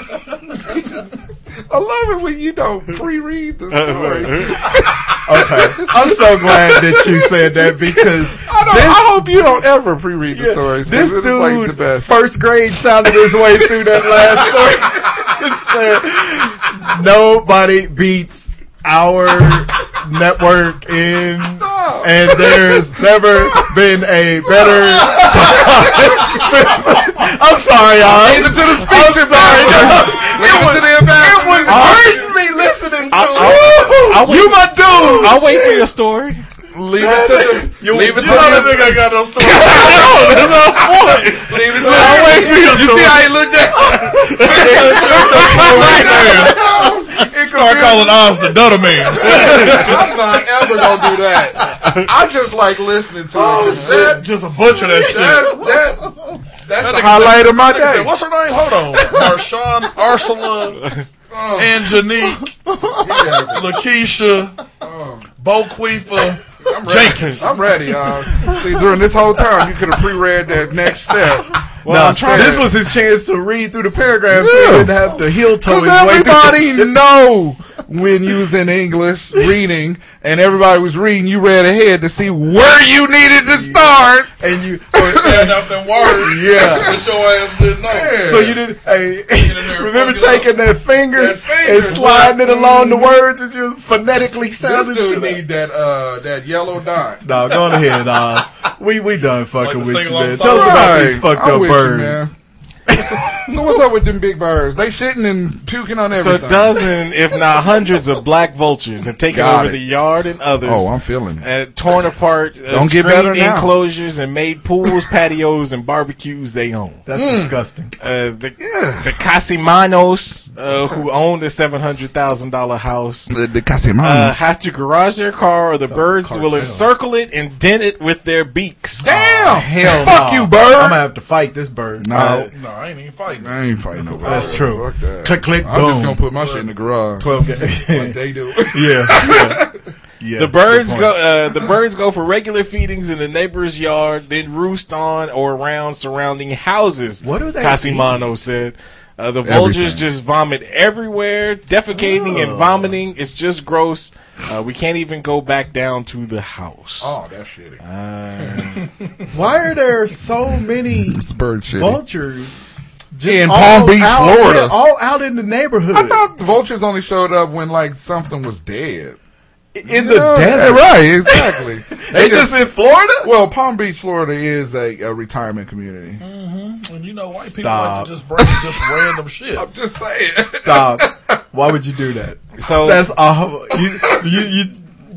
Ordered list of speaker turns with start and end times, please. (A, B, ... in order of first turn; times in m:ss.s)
0:01.7-0:12.2 A
0:03.7-0:04.7 B
0:05.2-0:09.3 C
0:10.3-0:35.8 C
0:13.3-0:14.7 A
0:21.4-0:23.8 A
0:24.6-0:26.5 A
0:28.0-0:32.4 A
0:31.7-0:32.1 B
0:33.1-0:36.4 B
0:33.4-0:33.7 A
0:36.7-0:38.9 A
0:37.0-0:39.0 C
0:37.9-0:40.4 D
0:39.4-0:46.4 B
0:41.3-0:47.3 A
0:41.8-0:42.9 C
0:43.8-0:50.0 C
0:44.5-0:46.7 D
0:47.5-0:49.9 D
0:49.2-0:54.3 A
0:50.7-0:51.1 C
0:51.6-0:52.0 C
0:53.4-0:56.2 C
0:53.5-0:55.6 D
0:55.0-0:56.1 A
0:56.6-0:58.2 A
0:56.8-1:00.8 D
1:00.8-1:01.0 B
1:01.3-1:01.9 A
1:01.6-1:02.5 D
1:02.2-1:03.5 C
1:03.0-1:03.7 A
1:03.5-1:04.6 D
1:04.8-1:05.3 A
1:05.4-1:07.5 D
1:06.6-1:12.7 A
1:08.3-1:08.8 C
1:11.8-1:12.7 B
1:11.8-1:17.0 C
1:14.3-1:24.3 A
1:23.4-1:27.0 C
1:24.9-1:27.0 A
1:25.0-1:28.5 D
1:27.8-1:28.6 A
1:28.1-1:35.4 C
1:29.3-1:30.6 D
1:31.2-1:33.2 A
1:31.2-1:32.4 D
1:34.6-1:37.2 A
1:37.2-1:42.3 C
1:39.6-1:41.2 D
1:40.4-1:42.3 A
1:42.9-1:46.9 A
1:42.9-1:43.6 C
1:46.1-1:57.0 B
1:49.3-1:49.8 A
1:50.6-1:51.5 A
1:52.7-1:53.7 A
1:57.1-1:57.9 C
1:57.2-1:57.6 A
1:58.0-2:03.3 B
1:58.6-1:59.2 A
2:03.3-2:04.4 A
2:04.0-2:09.1 B
2:05.9-2:06.9 C
2:09.0-2:11.0 A
2:09.0-2:12.5 C
2:12.0-2:12.5 A
2:12.5-2:14.7 D
2:13.4-2:19.8 A
2:14.2-2:16.2 C
2:16.3-2:16.7 D
2:17.2-2:19.7 C
2:20.2-2:21.2 C
2:20.4-2:37.2 B
2:27.2-2:28.3 C
2:29.4-2:30.1 A
2:31.9-2:33.0 C
2:37.0-2:37.8 A
2:37.8-2:38.9 B
2:38.4-2:38.7 A
2:39.3-2:42.6 C
2:41.0-2:42.0 A
2:43.1-2:46.2 C
2:43.2-2:44.8 A
2:45.9-2:49.2 A
2:49.7-2:53.3 C
2:49.8-2:52.7 A
2:53.2-2:56.2 A
2:56.2-2:59.7 D
2:57.4-2:58.1 C
2:58.4-2:58.9 A
2:59.6-3:01.4 A
3:00.5-3:04.9 C
3:02.6-3:03.1 B
3:03.7-3:04.4 A